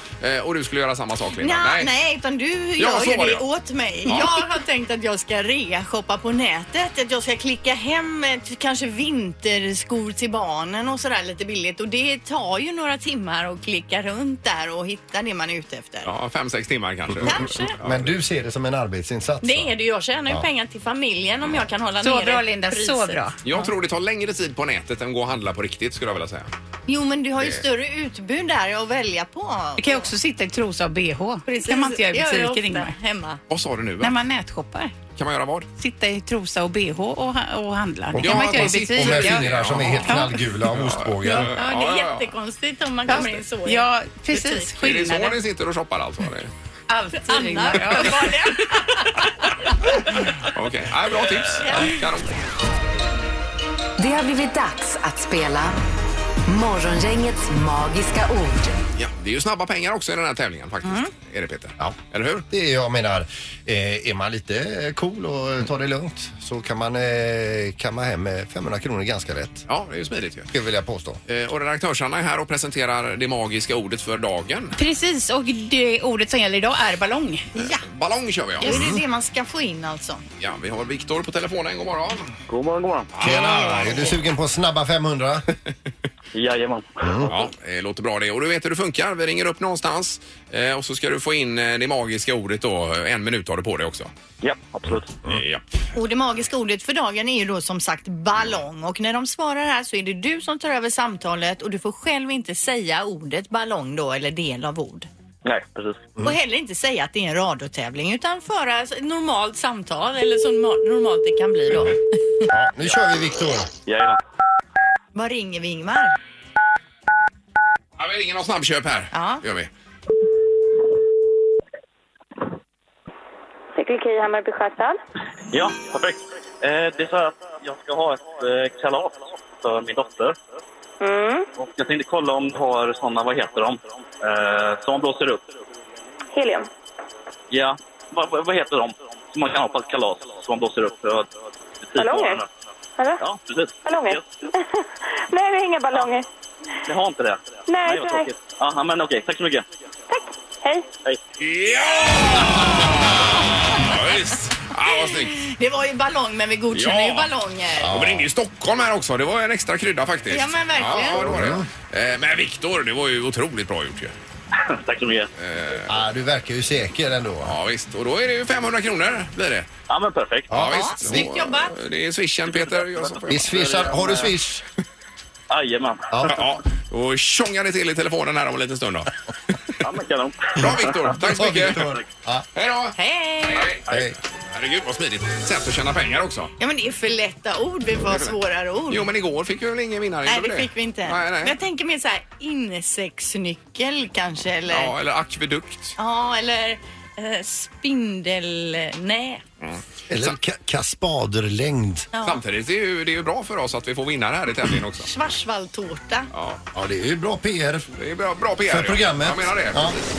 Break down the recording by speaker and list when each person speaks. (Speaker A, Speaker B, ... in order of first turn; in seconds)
Speaker A: 0.2-1.9, 2.8-3.4, 16.0-18.2, 23.4-26.5, 27.4-27.6, 33.5-34.1, 35.1-35.7, 38.2-42.4, 44.8-46.5, 50.4-52.4, 58.9-62.4, 69.7-70.5, 71.3-74.8, 77.6-78.8, 80.4-82.3, 83.1-84.2, 87.3-94.1, 95.2-95.6, 118.0-119.7, 151.4-155.4, 156.7-157.3, 157.9-164.1, 165.4-166.0, 167.4-169.7, 170.5-173.5, 176.2-179.8, 180.6-181.9, 182.5-183.8, 184.5-186.5, 188.0-188.4, 188.9-191.6, 194.7-195.9, 199.6-200.4, 202.2-205.1, 206.3-206.6, 207.9-210.1
Speaker B: 1.4-16.1, 17.2-17.8, 19.4-23.2, 26.9-30.1, 31.4-33.4, 41.2-44.7, 47.0-49.6, 51.6-52.0, 60.8-61.1, 77.5-77.9, 78.6-80.2, 95.9-105.1, 106.2-112.5, 115.1-116.1, 119.1-119.4, 152.4-153.7, 155.1-157.9, 160.3-161.4, 170.6-171.7, 182.9-183.8, 186.6-189.1, 190.2-194.9, 196.0-199.4, 202.1-202.4, 205.0-206.3
Speaker C: 17.1-19.8, 38.1-41.5, 62.5-69.7, 70.5-71.2, 78.6-79.0, 83.2-85.5, 87.0-87.3, 112.5-113.7, 157.8-158.3, 161.1-161.7, 165.9-167.6, 170.5-171.4, 173.3-174.6, 176.1-176.4, 181.2-182.5, 183.9-184.2, 200.1-202.1, 206.7-207.9, 208.7-210.0
Speaker D: 22.0-23.6, 29.8-32.9, 34.0-34.9, 35.8-40.4, 43.1-45.4, 46.9-48.6, 74.8-77.5
Speaker E: 54.0-55.7, 56.5-58.8
Speaker F: 82.5-83.0, 86.4-86.9, 94.4-95.0, 105.5-105.9, 113.9-114.2, 125.5-130.3, 131.6-135.4, 137.5-141.3, 142.0-142.4, 143.2-144.2, 146.9-149.6, 164.7-165.3, 169.9-170.5, 173.8-174.2, 175.5-176.0, 179.9-181.1
Speaker G: 123.8-125.0, 131.0-131.5, 136.3-136.7, 141.9-142.4, 143.0-143.3, 143.8-146.2, 147.7-148.3, 150.1-150.9